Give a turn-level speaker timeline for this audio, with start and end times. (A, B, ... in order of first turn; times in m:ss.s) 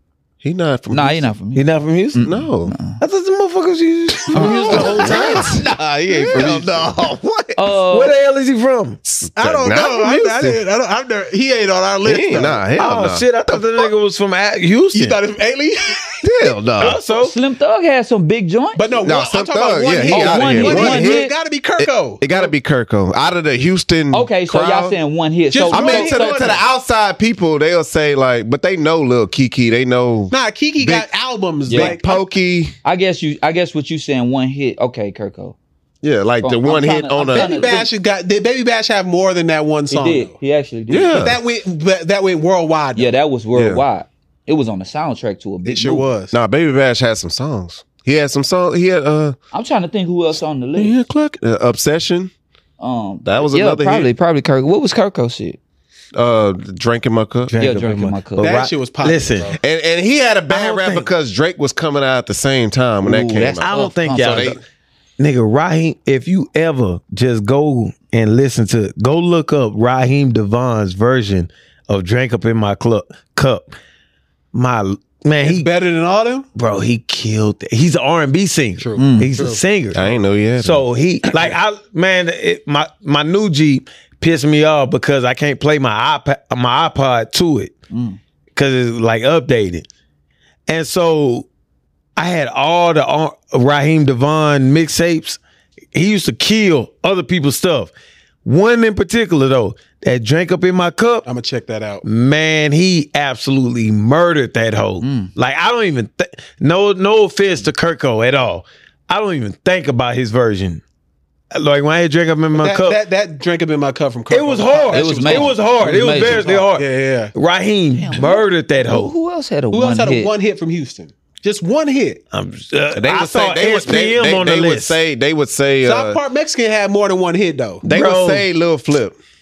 0:00.4-0:01.2 A
0:00.9-0:01.6 B
0:01.6-0:02.2 C
0:02.2-0:03.0 B
0:02.2-0:02.8 A
0:03.0-0:06.9 C
0:04.3-0:06.5 B
0:04.3-0:07.7 A
0:07.6-0:08.1 B
0:07.9-0:09.0 C
0:09.0-0:10.6 A
0:09.4-0:12.6 D
0:12.0-0:13.6 A
0:12.8-0:15.2 C
0:14.9-0:16.2 D
0:16.2-0:17.0 A
0:16.8-0:17.4 C
0:17.1-0:18.8 B
0:18.8-0:22.5 D
0:19.0-0:21.3 A
0:20.1-0:21.3 B
0:21.8-0:25.0 A
0:24.1-0:26.6 B
0:25.5-0:26.6 D
0:25.7-0:31.1 A
0:30.3-0:32.2 D
0:31.7-0:32.0 B
0:31.7-0:32.7 A
0:32.8-0:35.6 B
0:36.0-0:37.8 A
0:36.4-0:37.9 B
0:37.3-0:40.4 D
0:39.9-0:41.2 B
0:40.9-0:41.4 A
0:41.1-0:43.1 D
0:43.0-0:46.1 B
0:43.6-0:43.8 A
0:45.6-0:46.4 D
0:46.3-0:49.4 A
0:49.5-0:50.9 B
0:50.8-0:52.3 A
0:52.8-0:55.6 B
0:53.2-0:54.1 A
0:56.2-0:57.5 A
0:57.5-0:59.6 C
0:57.6-0:58.6 B
0:58.4-0:59.6 D
0:59.6-1:04.6 A
1:00.5-1:01.1 C
1:03.0-1:04.6 B
1:03.6-1:04.6 C
1:05.2-1:13.7 C
1:14.5-1:15.7 C
1:15.4-1:16.5 D
1:16.6-1:20.0 C
1:18.8-1:19.6 D
1:19.0-1:19.4 B
1:19.9-1:20.8 A
1:20.6-1:27.7 C
1:27.9-1:28.2 B
1:28.6-1:29.9 C
1:30.7-1:31.5 C
1:32.2-1:35.4 C
1:35.9-1:37.9 C
1:38.4-1:41.2 C
1:41.2-1:42.0 D
1:42.0-1:50.8 C
1:45.0-1:45.3 B
1:51.5-1:53.0 C
1:52.6-1:57.3 D
1:54.3-1:59.1 C
1:54.9-1:56.6 B
1:58.0-2:00.3 B
1:59.7-2:02.2 D
2:02.3-2:05.0 C
2:03.0-2:06.2 A
2:05.8-2:07.8 D
2:07.8-2:09.2 A
2:07.9-2:08.4 C